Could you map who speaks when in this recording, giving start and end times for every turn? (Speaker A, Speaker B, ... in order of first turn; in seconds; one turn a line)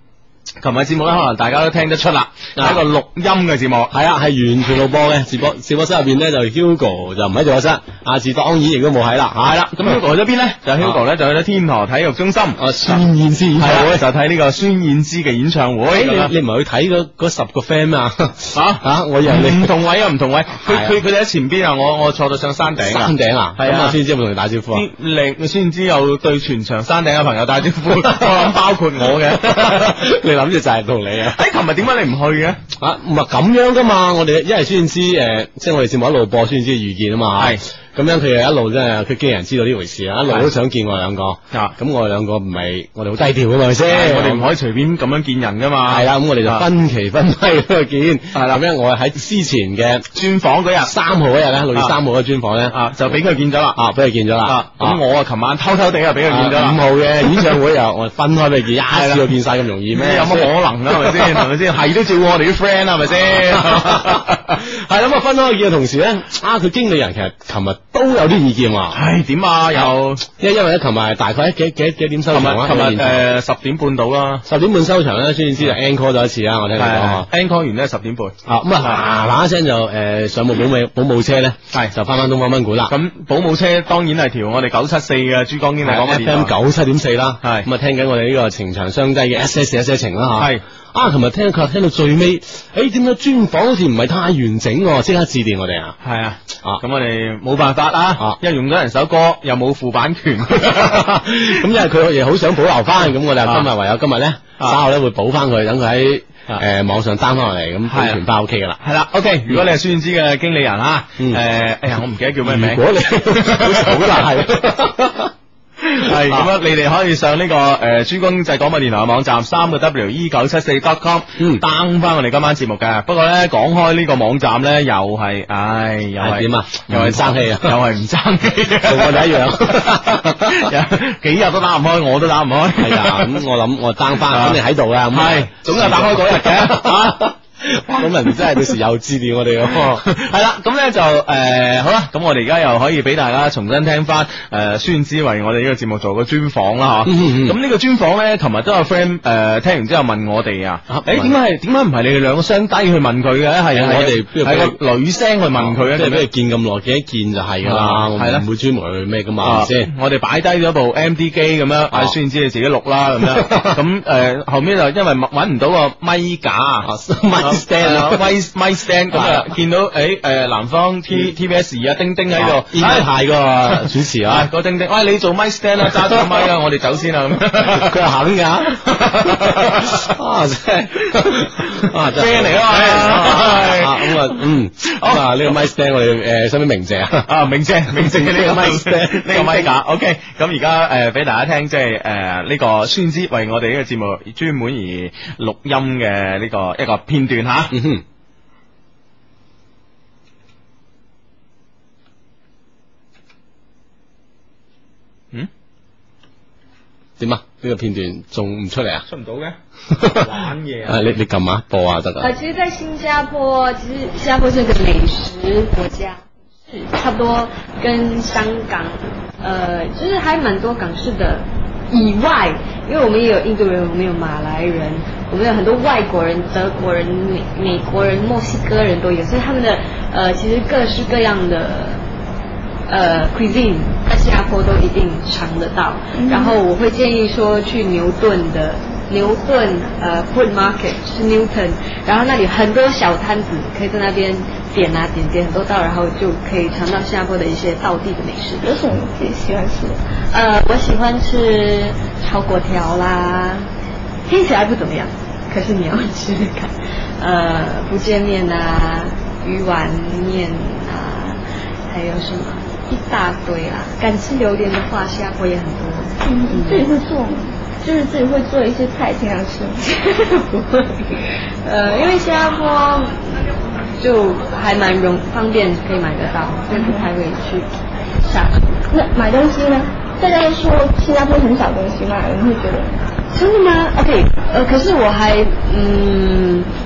Speaker A: 0.6-3.9
Speaker B: 2.6-2.8
Speaker B: 3.9-10.0
Speaker A: 9.4-12.6
Speaker B: 12.6-14.0
Speaker A: 13.6-16.3
Speaker B: 15.9-19.7
Speaker A: 18.5-24.0
Speaker B: 20.6-20.9
Speaker B: 22.8-24.8
Speaker A: 24.7-29.9
Speaker B: 28.1-28.4
Speaker B: 29.0-31.4
Speaker A: 31.3-32.6
Speaker B: 32.8-44.5
Speaker A: 43.9-46.6
Speaker B: 45.9-50.1
Speaker A: 48.3-48.6
Speaker A: 50.1-50.9
Speaker B: 50.8-52.8
Speaker A: 52.7-53.8
Speaker B: 53.8-55.0
Speaker A: 54.4-57.5
Speaker B: 56.3-61.4
Speaker A: 58.9-59.3
Speaker A: 59.9-64.6
Speaker B: 63.5-69.0
Speaker A: 68.9-70.2
Speaker B: 70.2-73.2
Speaker A: 72.3-74.4
Speaker B: 74.4-77.3
Speaker A: 76.8-79.0
Speaker B: 78.4-82.9
Speaker A: 82.9-86.5
Speaker B: 85.8-95.9
Speaker A: 87.4-87.7
Speaker A: 90.4-90.6
Speaker A: 96.0-101.6
Speaker B: 100.7-108.8
Speaker A: 107.9-108.2
Speaker A: 108.8-114.3
Speaker B: 112.4-115.3
Speaker A: 115.8-133.4
Speaker B: 116.0-116.5
Speaker B: 126.2-127.8
Speaker B: 128.8-130.7
Speaker B: 132.8-140.0
Speaker A: 134.2-137.3
Speaker A: 139.7-156.2
Speaker B: 147.1-147.6
Speaker B: 150.9-151.3
Speaker B: 153.7-154.8
Speaker B: 155.6-159.9
Speaker A: 157.6-158.4
Speaker A: 159.4-166.9
Speaker B: 163.2-163.8
Speaker B: 166.8-168.3
Speaker A: 167.4-173.1
Speaker B: 169.1-169.5
Speaker B: 172.3-174.5
Speaker A: 173.8-177.9
Speaker B: 176.1-176.4
Speaker B: 177.6-187.3
Speaker A: 178.8-180.1
Speaker A: 181.7-185.3
Speaker A: 187.2-197.8
Speaker B: 187.9-189.7
Speaker B: 197.7-198.0
Speaker B: 207.2-209.1
Speaker A: 209.1-211.1
Speaker B: 209.9-210.2
Speaker B: 210.8-212.3
Speaker C: 212.2-232.0
Speaker C: 232.9-248.6
Speaker D: 236.1-236.6
Speaker D: 248.6-250.0
Speaker C: 250.3-253.7
Speaker C: 254.3-266.9
Speaker D: 266.2-269.9
Speaker C: 270.1-271.1
Speaker C: 271.6-277.7
Speaker D: 276.7-277.1
Speaker C: 278.2-278.9
Speaker D: 278.9-282.9
Speaker C: 283.3-286.7